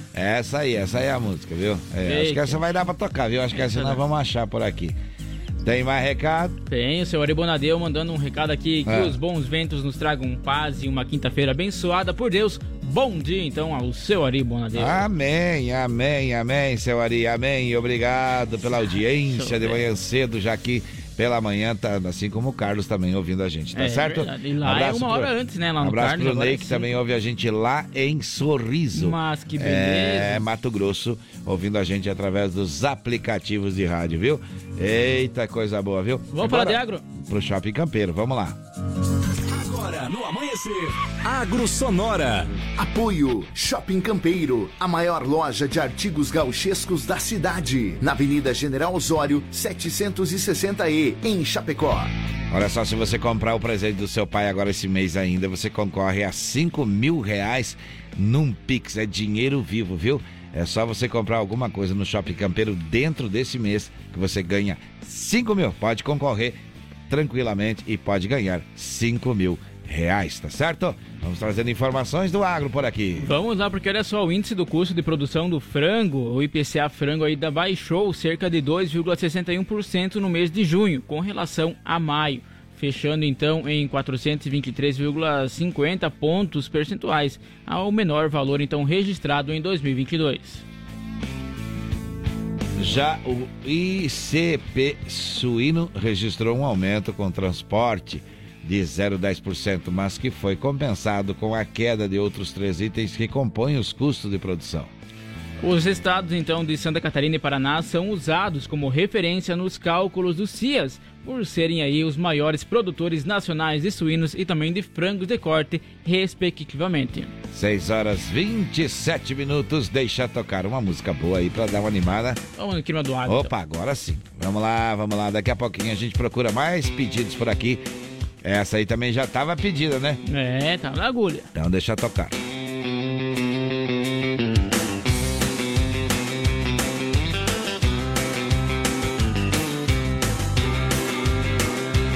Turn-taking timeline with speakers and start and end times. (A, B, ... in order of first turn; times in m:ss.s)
0:00.1-0:05.0 A
0:02.0-0:02.6 B
0:03.6-0:04.0 B
0:05.6-0:06.6 A
0:06.7-0:15.1 B
0:08.9-0:09.2 A
0:14.7-0:38.6 A
0:19.3-0:19.8 B
0:23.7-0:26.9 B
0:28.9-0:30.4 B
0:36.3-0:37.0 B
0:39.5-0:42.5 C
0:42.8-0:52.1 D
0:52.5-1:06.6 A
1:07.1-1:13.3 A
1:13.2-1:30.6 B
1:32.8-1:44.9 A
1:45.6-1:57.3 B
1:57.5-2:02.4 A
2:02.6-2:03.5 B
2:03.3-2:07.9 A
2:08.4-2:10.2 A
2:10.3-2:11.5 B
2:11.5-2:12.4 A